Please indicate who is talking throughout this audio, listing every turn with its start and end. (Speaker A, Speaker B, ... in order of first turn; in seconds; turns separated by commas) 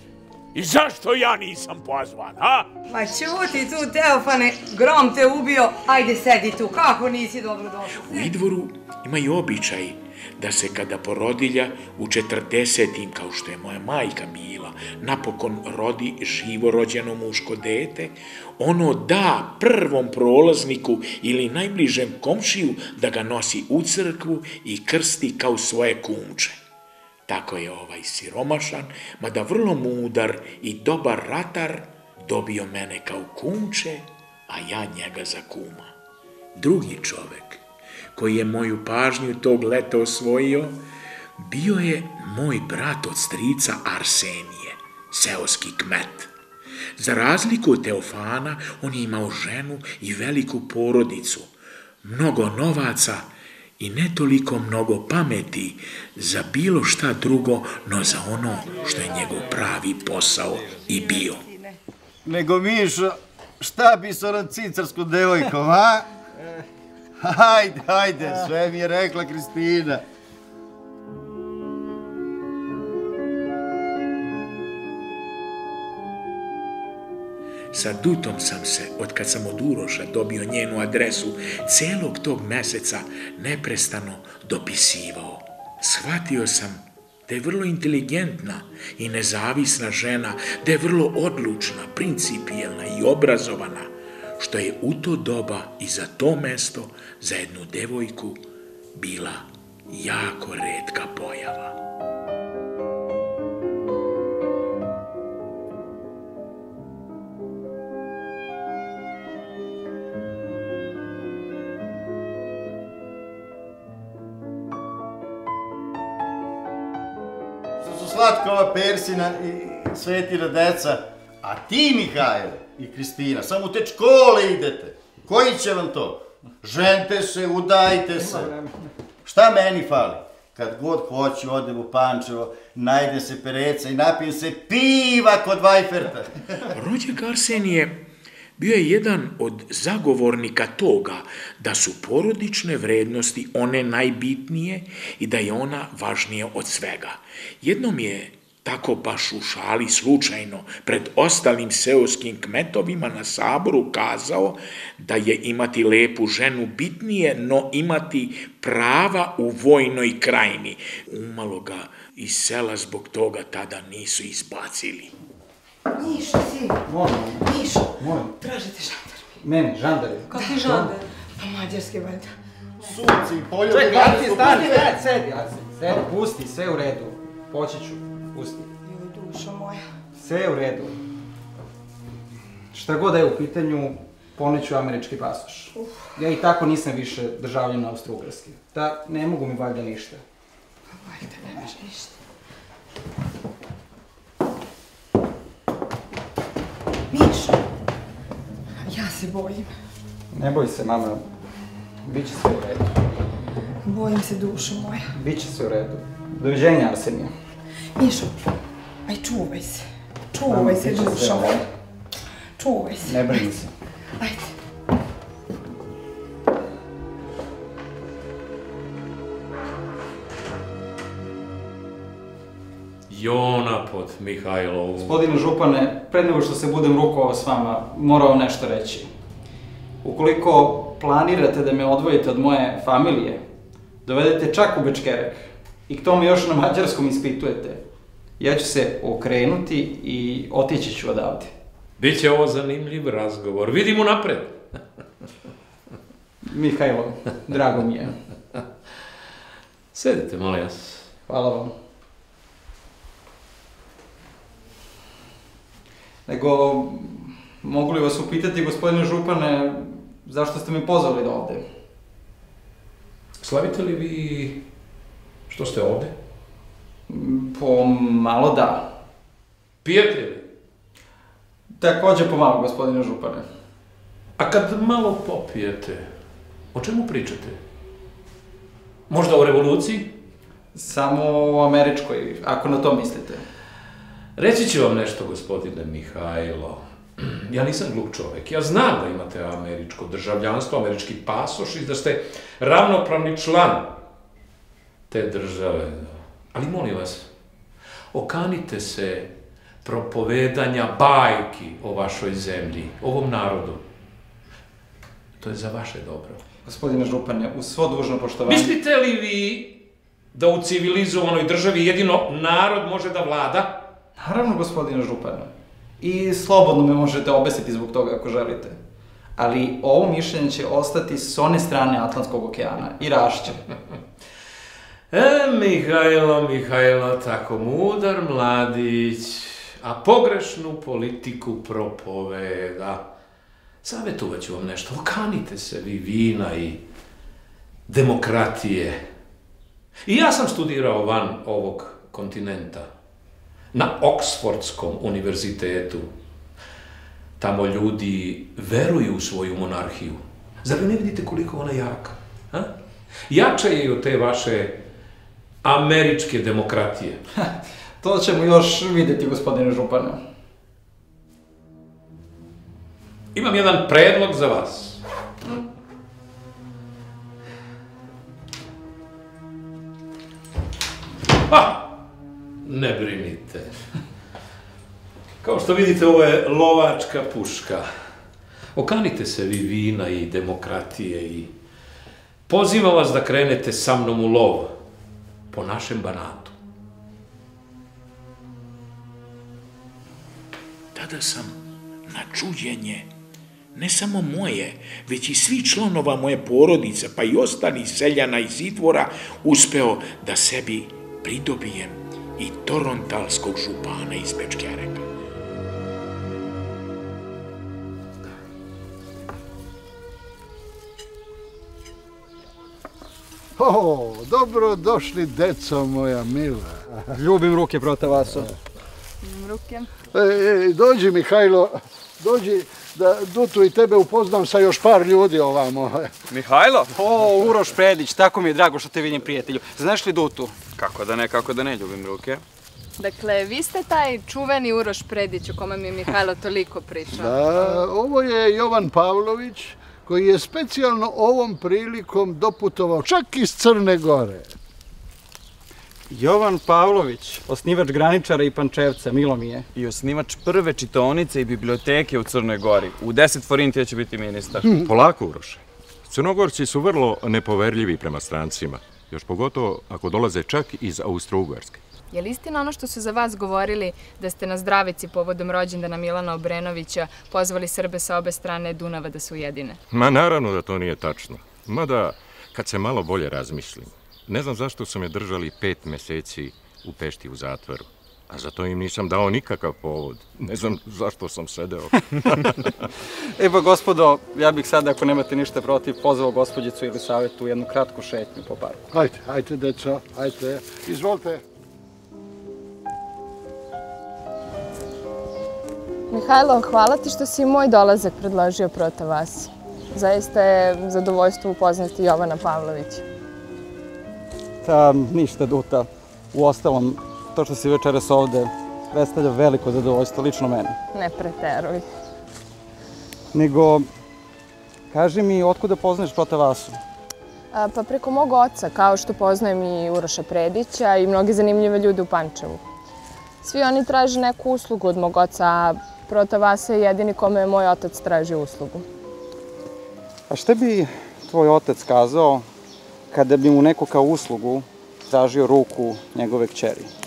Speaker A: 0.5-2.7, Speaker B: 2.9-8.3, Speaker A: 8.0-26.6, Speaker A: 27.3-36.0, Speaker A: 36.6-37.6, Speaker A: 38.1-40.8, Speaker A: 41.4-46.3, Speaker A: 47.0-51.5, Speaker A: 52.0-61.5, Speaker B: 58.9-59.4, Speaker B: 60.7-61.8, Speaker C: 62.2-66.1, Speaker C: 67.2-70.0, Speaker A: 77.7-98.4, Speaker A: 99.0-101.8, Speaker C: 117.8-128.5, Speaker D: 128.2-128.7, Speaker C: 129.2-136.7, Speaker A: 136.7-138.0, Speaker A: 138.6-165.1, Speaker B: 165.9-166.8, Speaker D: 166.8-168.3, Speaker B: 167.4-169.4, Speaker D: 169.4-170.9, Speaker B: 170.3-173.0, Speaker C: 172.8-175.0, Speaker D: 173.7-178.7, Speaker B: 178.8-179.8, Speaker D: 180.2-181.0, Speaker D: 182.7-190.2, Speaker B: 185.8-186.1, Speaker B: 190.9-192.1, Speaker B: 197.1-197.6, Speaker B: 198.8-199.7, Speaker D: 200.3-201.3, Speaker D: 202.1-202.9, Speaker B: 203.8-205.1, Speaker D: 205.1-207.3, Speaker B: 208.0-208.3, Speaker B: 209.1-211.7, Speaker D: 210.5-211.6, Speaker B: 212.6-213.5, Speaker D: 213.0-213.7, Speaker B: 214.2-214.5, Speaker E: 223.1-225.2, Speaker D: 225.0-229.1, Speaker D: 230.0-233.4, Speaker D: 234.1-237.8, Speaker D: 238.4-241.5, Speaker E: 242.0-244.8, Speaker D: 246.4-248.2, Speaker E: 249.9-251.1, Speaker D: 251.3-251.8, Speaker D: 256.3-261.6, Speaker E: 263.4-264.6, Speaker E: 265.5-266.1, Speaker D: 267.1-268.9, Speaker E: 269.8-270.5, Speaker D: 271.8-273.5, Speaker E: 274.4-276.2, Speaker E: 276.7-277.6, Speaker E: 279.1-280.1, Speaker D: 280.7-283.4, Speaker E: 284.4-294.0, Speaker E: 295.1-297.3, Speaker E: 298.1-303.9, Speaker E: 305.4-306.4, Speaker D: 306.6-308.7, Speaker E: 308.4-309.8, Speaker E: 310.3-313.8, Speaker D: 314.2-318.8, Speaker D: 319.4-323.6, Speaker E: 325.1-333.1, Speaker E: 333.8-336.8, Speaker E: 337.9-339.1, Speaker E: 340.0-342.9, Speaker E: 343.7-346.1, Speaker E: 347.4-352.7, Speaker E: 353.3-354.8, Speaker E: 355.6-357.2, Speaker D: 357.4-360.2, Speaker E: 363.3-365.0, Speaker E: 371.5-372.0, Speaker E: 372.6-373.9, Speaker E: 375.4-377.9, Speaker E: 378.8-381.5, Speaker E: 382.5-384.8, Speaker E: 385.5-386.6, Speaker A: 390.9-393.1, Speaker A: 393.7-405.1, Speaker F: 413.6-416.9, Speaker D: 417.1-418.5, Speaker B: 419.3-419.8, Speaker F: 420.1-426.1, Speaker G: 426.3-426.9, Speaker D: 426.9-430.6, Speaker G: 430.8-432.4, Speaker H: 433.0-437.8, Speaker F: 437.1-444.5, Speaker D: 446.1-449.7, Speaker G: 449.8-454.8, Speaker I: 454.8-461.8, Speaker H: 462.1-469.8, Speaker I: 469.9-482.7, Speaker D: 483.4-488.8, Speaker F: 488.9-491.4, Speaker H: 496.1-503.0, Speaker D: 504.6-510.8, Speaker H: 510.9-511.8, Speaker D: 513.3-513.9, Speaker D: 514.9-516.8, Speaker H: 517.5-522.6, Speaker H: 523.4-528.9, Speaker D: 530.3-532.5, Speaker D: 533.1-536.9